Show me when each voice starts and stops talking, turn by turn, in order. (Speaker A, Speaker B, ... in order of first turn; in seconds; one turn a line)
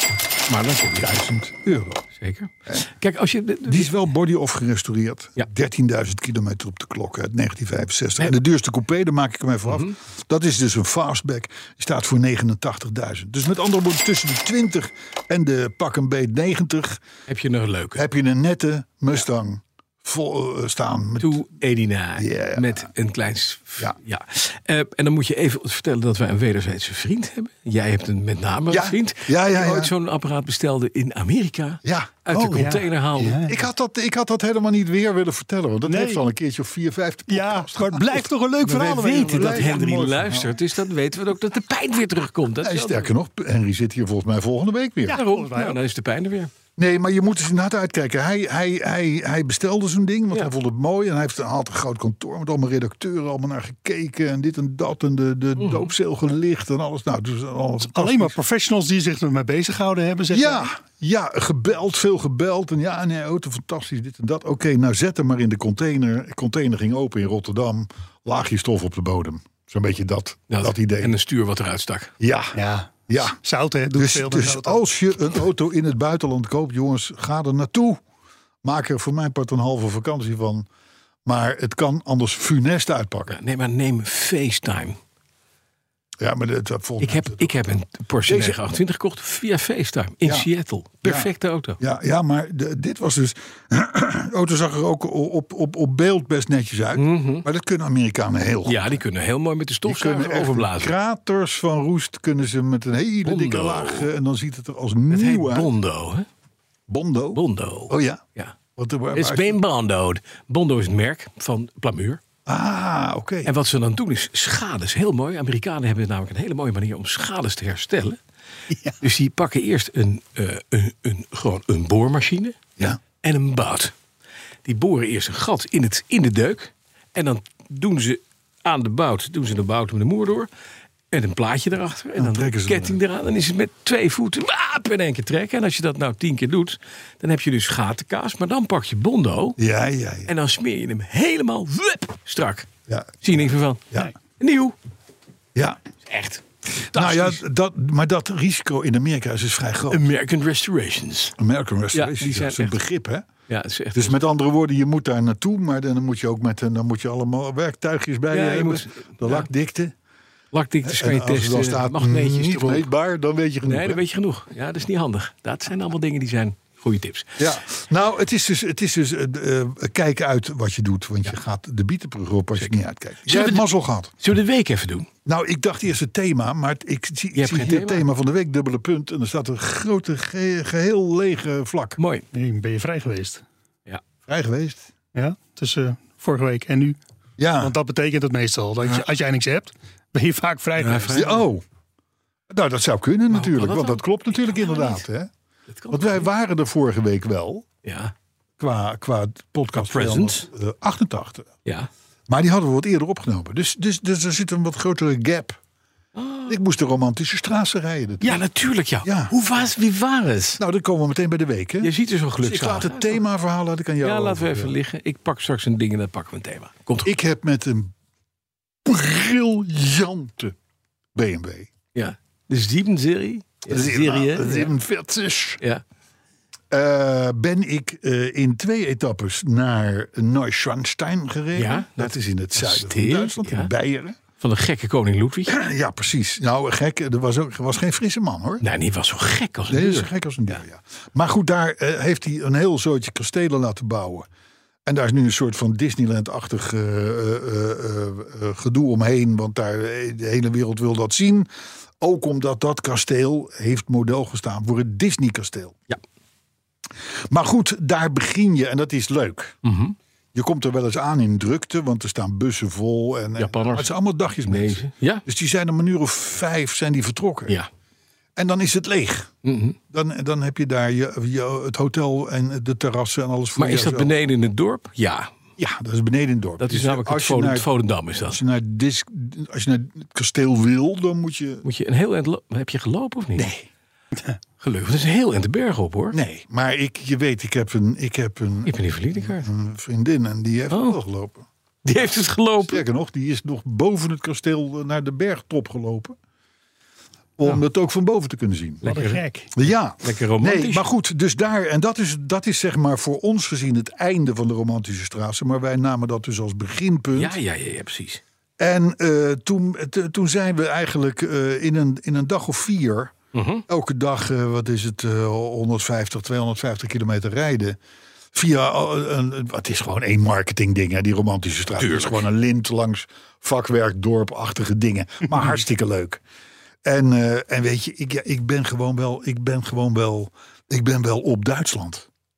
Speaker A: 0.5-1.2
Speaker B: 1.0-2.0
Speaker A: 2.1-3.9
Speaker B: 3.6-17.0
Speaker A: 9.7-10.0
Speaker A: 17.3-18.0
Speaker B: 17.9-21.4
Speaker A: 21.2-33.5
Speaker B: 22.2-22.9
Speaker B: 28.7-29.9
Speaker B: 31.8-32.7
Speaker C: 32.6-33.5
Speaker B: 33.5-40.6
Speaker C: 35.9-36.2
Speaker C: 37.3-40.0
Speaker A: 38.7-43.1
Speaker B: 42.6-45.2
Speaker C: 45.0-45.8
Speaker A: 45.0-46.5
Speaker B: 46.8-58.4
Speaker A: 55.6-55.9
Speaker C: 57.9-60.7
Speaker B: 60.3-71.1
Speaker A: 70.5-72.1
Speaker B: 72.2-72.6
Speaker C: 72.5-74.8
Speaker B: 73.1-73.4
Speaker B: 73.9-78.0
Speaker B: 78.6-80.7
Speaker B: 81.3-83.4
Speaker A: 83.3-85.0
Speaker B: 86.2-88.6
Speaker A: 87.0-91.8
Speaker B: 91.0-99.0
Speaker A: 97.0-97.5
Speaker A: 98.7-100.9
Speaker B: 99.9-105.7
Speaker A: 103.2-104.1
Speaker A: 105.1-106.3
Speaker B: 106.9-108.2
Speaker A: 107.3-108.6
Speaker B: 108.8-109.6
Speaker A: 109.1-112.2
Speaker B: 112.5-113.5
Speaker A: 113.5-118.2
Speaker A: 119.0-122.6
Speaker A: 123.2-123.9
Speaker A: 124.6-130.5
Speaker A: 131.1-139.6
Speaker B: 132.2-133.0
Speaker B: 139.6-140.3
Speaker A: 140.3-142.7
Speaker B: 142.9-144.1
Speaker A: 143.2-144.8
Speaker B: 145.6-145.8
Speaker A: 146.1-147.4
Speaker B: 146.7-150.1
Speaker A: 149.9-151.4
Speaker B: 151.4-153.3
Speaker A: 151.9-152.8
Speaker A: 153.5-154.2
Speaker B: 153.9-159.9
Speaker A: 158.3-159.5
Speaker A: 160.5-162.9
Speaker B: 160.8-164.0
Speaker A: 163.6-167.4
Speaker B: 167.4-174.1
Speaker A: 173.2-173.7
Speaker A: 174.2-175.1
Speaker B: 175.2-182.0
Speaker A: 177.3-178.1
Speaker A: 182.0-182.2
Speaker C: 182.3-183.4
Speaker B: 184.3-184.9
Speaker C: 185.2-187.0
Speaker B: 187.4-187.8
Speaker C: 187.6-191.3
Speaker A: 190.8-191.4
Speaker B: 191.1-191.6
Speaker B: 192.5-195.3
Speaker A: 193.3-195.1
Speaker A: 195.7-196.3
Speaker B: 195.9-197.7
Speaker A: 197.8-198.1
Speaker B: 198.6-201.5
Speaker A: 199.7-200.5
Speaker B: 202.3-205.6
Speaker A: 206.2-206.6
Speaker B: 206.5-208.4
Speaker A: 208.2-210.6
Speaker B: 209.0-209.3
Speaker B: 210.6-214.8
Speaker A: 211.8-213.2
Speaker A: 214.0-217.1
Speaker B: 217.0-217.9
Speaker B: 218.8-220.6
Speaker B: 221.2-221.7
Speaker A: 221.9-224.7
Speaker B: 223.7-225.6
Speaker B: 226.7-234.2
Speaker A: 231.6-233.7
Speaker A: 234.4-235.5
Speaker B: 235.5-238.7
Speaker A: 238.6-240.6
Speaker B: 239.7-244.3
Speaker B: 244.9-251.5
Speaker B: 252.0-255.8
Speaker B: 257.3-259.6
Speaker A: 259.6-260.0
Speaker B: 260.3-267.6
Speaker A: 263.4-263.9
Speaker A: 264.5-265.2
Speaker B: 268.4-269.3
Speaker A: 269.4-269.8
Speaker B: 269.9-274.1
Speaker A: 273.6-275.3
Speaker B: 275.6-277.7
Speaker A: 276.6-278.4
Speaker B: 278.2-281.6
Speaker A: 281.6-283.5
Speaker B: 283.4-283.7
Speaker A: 284.6-286.2
Speaker B: 286.1-291.5
Speaker A: 288.7-289.5
Speaker A: 290.7-291.0
Speaker A: 291.9-292.8
Speaker B: 292.7-296.2
Speaker B: 297.4-298.8
Speaker A: 298.8-299.2
Speaker C: 298.8-299.5
Speaker B: 299.6-307.4
Speaker A: 300.0-300.9
Speaker A: 307.1-308.2
Speaker B: 308.6-313.1
Speaker A: 313.3-313.6
Speaker B: 313.7-317.8
Speaker B: 318.3-326.2
Speaker A: 321.8-322.3
Speaker B: 326.9-332.1